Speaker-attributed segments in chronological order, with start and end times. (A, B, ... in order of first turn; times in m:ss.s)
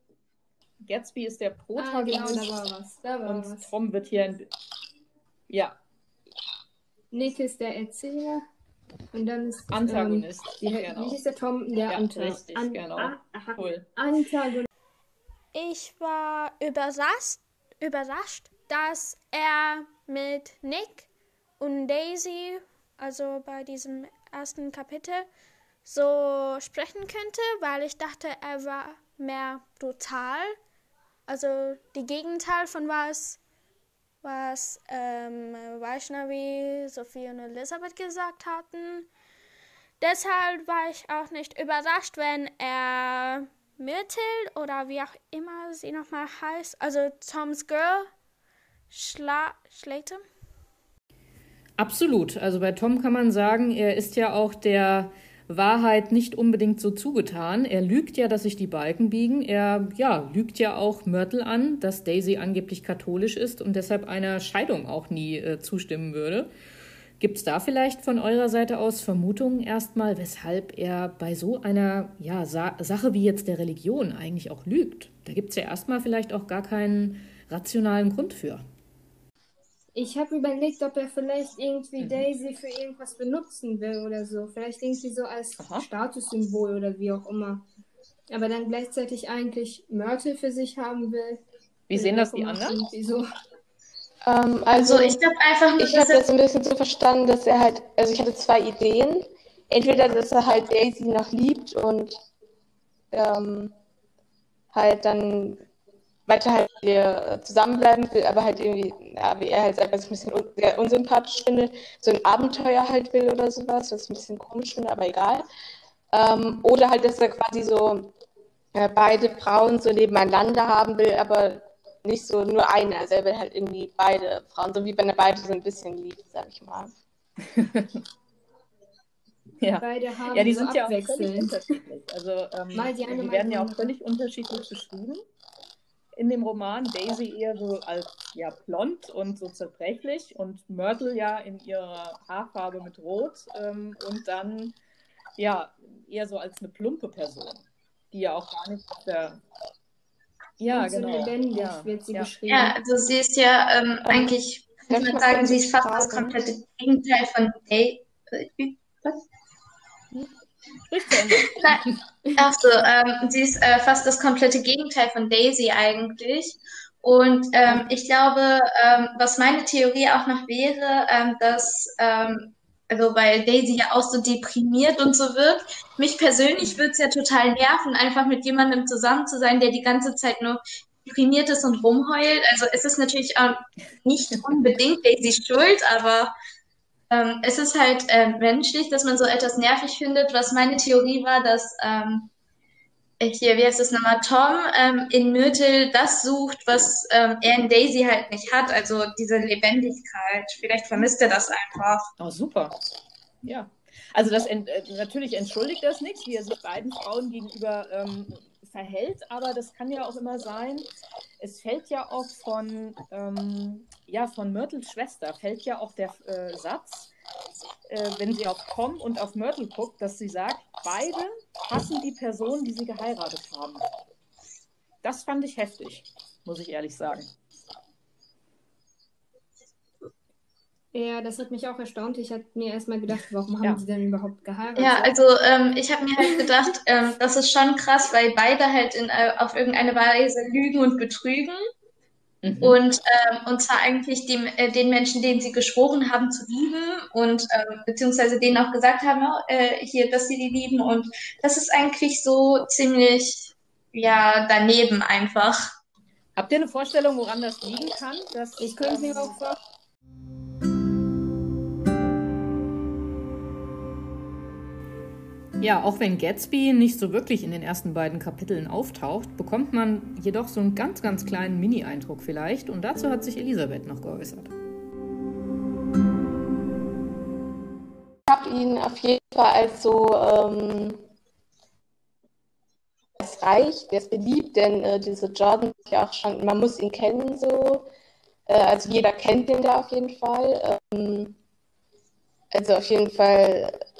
0:00.8-0:02.5 A
0:01.8-0:03.7 B
0:03.2-0:04.5 A
0:05.5-0:05.8 A
0:07.1-0:08.4 B
0:09.1-0:14.7 B
0:09.7-0:11.2 A
0:11.9-0:13.9 A
0:15.5-0:21.1 C
0:21.6-0:25.3 C
0:25.8-0:30.6 C
0:31.3-0:33.4 C
0:34.2-0:39.1 C
0:40.0-0:48.1 C
0:48.9-0:50.2 C
0:51.8-1:06.5 A
1:07.2-1:18.6 A
1:19.9-1:27.6 B
1:22.0-1:22.3 A
1:25.6-1:25.9 A
1:28.3-1:31.4 B
1:31.9-1:32.8 A
1:31.9-1:33.3 B
1:34.3-1:35.2 D
1:34.8-1:36.2 E
1:35.8-1:42.2 D
1:43.1-1:43.8 D
1:44.7-1:45.6 D
1:46.3-1:55.4 D
1:56.1-1:58.1 D
1:58.7-2:06.9 D
2:07.4-2:08.0 A
2:09.6-2:15.2 A
2:09.8-2:11.6 B
2:12.7-2:13.9 B
2:16.2-2:24.8 A
2:25.4-2:29.4 A
2:30.6-2:32.3 A
2:30.7-2:32.8 B
2:32.5-2:39.2 E
2:34.0-2:34.3 D
2:34.9-2:36.4 D
2:40.9-2:42.0 A
2:41.5-2:41.8 E
2:42.4-3:06.3 E
3:04.4-3:04.8 A
3:07.1-3:12.3 E
3:13.2-3:22.1 E
3:22.2-3:22.8 A
3:23.4-3:30.9 A
3:31.4-3:37.1 A
3:37.9-3:43.9 A
3:45.0-3:47.3 A
3:50.9-3:55.1 B
3:54.8-4:01.6 E
4:02.4-4:02.8 A
4:02.6-4:15.6 E
4:16.4-4:19.4 A
4:18.6-4:19.6 B
4:25.6-4:34.5 A
4:38.3-4:41.0 D
4:43.2-4:47.9 D
4:48.5-4:51.4 D
4:52.5-4:53.8 D